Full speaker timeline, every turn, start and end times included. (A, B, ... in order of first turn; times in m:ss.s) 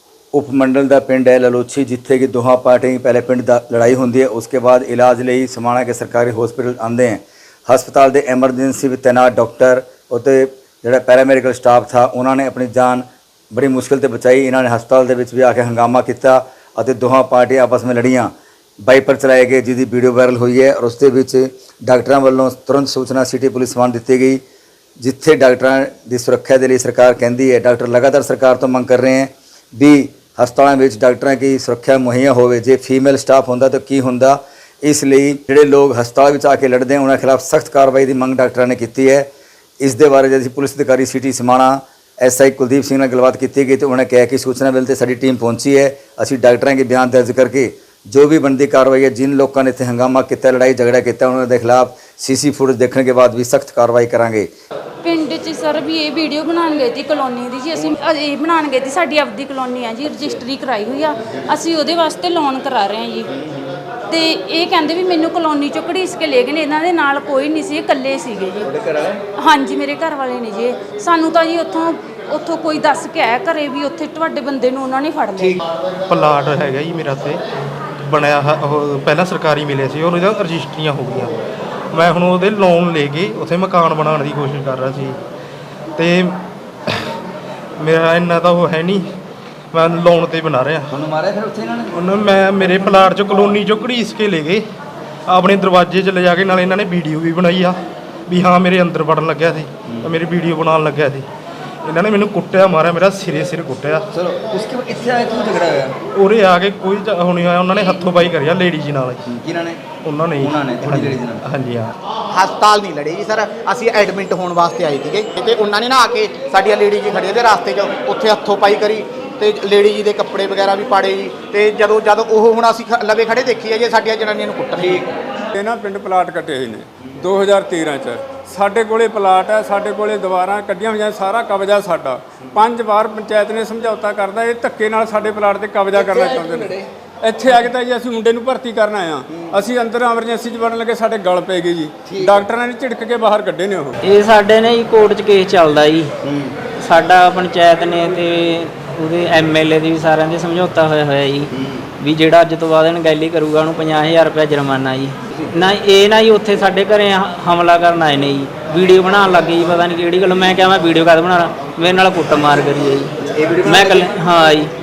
0:00.3-0:18.3 A
0:18.8-0:24.4 A
0:25.0-0:39.3 A
0:39.8-0:54.5 A
0:55.0-1:03.3 B
1:04.1-1:08.7 B
1:09.4-1:15.6 B
1:16.1-1:17.4 C
1:18.0-1:21.4 C
1:21.9-1:25.2 C
1:26.0-1:27.1 C
1:27.8-1:29.0 C
1:29.7-1:30.9 C
1:30.9-1:31.9 A
1:31.9-1:34.6 C
1:35.3-1:41.2 C
1:41.8-1:44.1 C
1:44.1-1:45.9 A
1:46.1-1:49.2 C
1:49.3-1:49.8 A
1:50.0-1:51.9 C
1:50.4-1:51.4 A
1:52.3-2:05.0 D
2:05.5-2:24.0 E
2:24.0-2:26.1 F
2:26.7-2:43.1 F
2:43.2-2:44.1 A
2:43.6-2:44.7 F